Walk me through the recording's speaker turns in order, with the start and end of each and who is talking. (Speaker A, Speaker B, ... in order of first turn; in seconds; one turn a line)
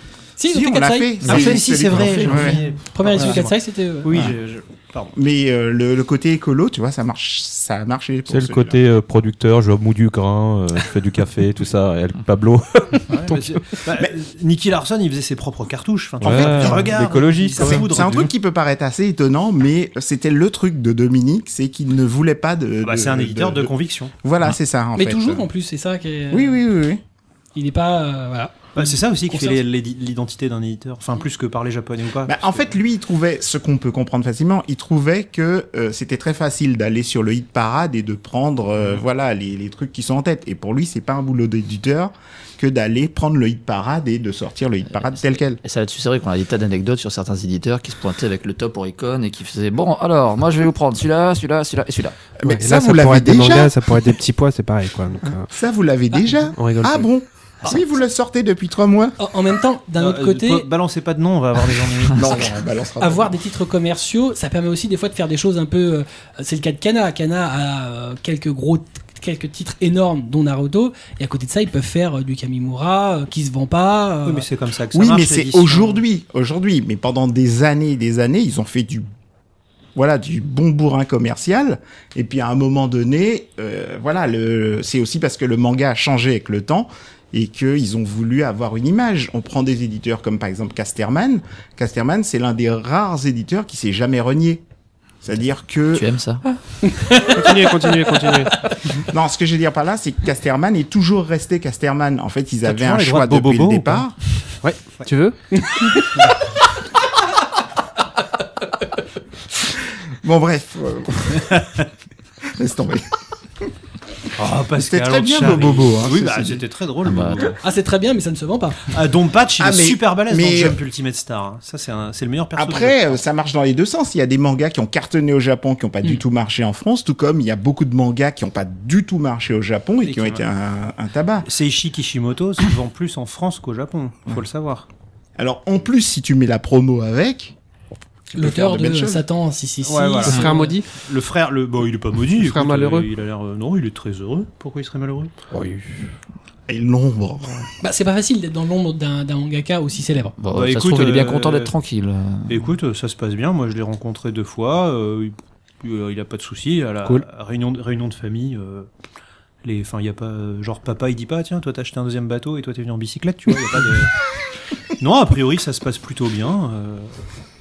Speaker A: 0.4-1.4
Speaker B: 0.5-2.6
Speaker C: 1.2-1.6
Speaker D: 1.2-5.1
Speaker A: 2.0-4.3
Speaker B: 3.1-3.5
Speaker B: 4.1-4.4
Speaker B: 5.1-8.8
Speaker E: 8.3-13.8
Speaker D: 13.1-18.3
Speaker E: 16.2-18.3
Speaker B: 16.2-16.9
Speaker B: 17.6-23.7
Speaker D: 22.8-24.1
Speaker B: 24.2-25.5
Speaker A: 25.0-26.6
Speaker B: 26.3-27.0
Speaker A: 27.6-29.6
Speaker D: 28.8-32.7
Speaker B: 32.2-45.6
Speaker C: 45.0-52.2
Speaker B: 52.4-53.8
Speaker F: 52.4-55.5
Speaker B: 55.5-59.1
Speaker F: 56.5-57.1
Speaker A: 59.2-60.7
Speaker D: 60.0-62.4
Speaker B: 62.1-63.4
Speaker A: 63.0-74.5
Speaker D: 74.3-76.0
Speaker B: 74.9-79.1
Speaker B: 80.0-94.6
Speaker B: 95.2-96.1
Speaker C: 95.9-96.4
Speaker A: 96.8-98.9
Speaker F: 97.3-98.6
Speaker B: 99.0-104.1
Speaker D: 102.6-104.1
Speaker F: 104.6-105.4
Speaker A: 105.5-106.1
Speaker B: 110.2-111.8
Speaker B: 112.5-113.0
Speaker D: 114.4-117.6
Speaker B: 114.8-116.6
Speaker C: 117.1-117.4
Speaker A: 117.6-118.9
Speaker D: 118.9-123.2
Speaker B: 119.6-120.8
Speaker B: 122.6-131.5
Speaker D: 130.0-130.4
Speaker D: 131.4-134.9
Speaker B: 135.4-137.6
Speaker B: 138.3-139.2
Speaker A: 138.3-140.7
Speaker D: 139.8-145.3
Speaker F: 140.3-140.9
Speaker F: 142.4-143.1
Speaker F: 145.5-145.9
Speaker B: 146.7-147.7
Speaker A: 147.8-150.3
Speaker C: 150.4-152.6
Speaker D: 150.5-151.7
Speaker D: 152.5-158.9
Speaker D: 159.6-164.1
Speaker D: 164.9-167.2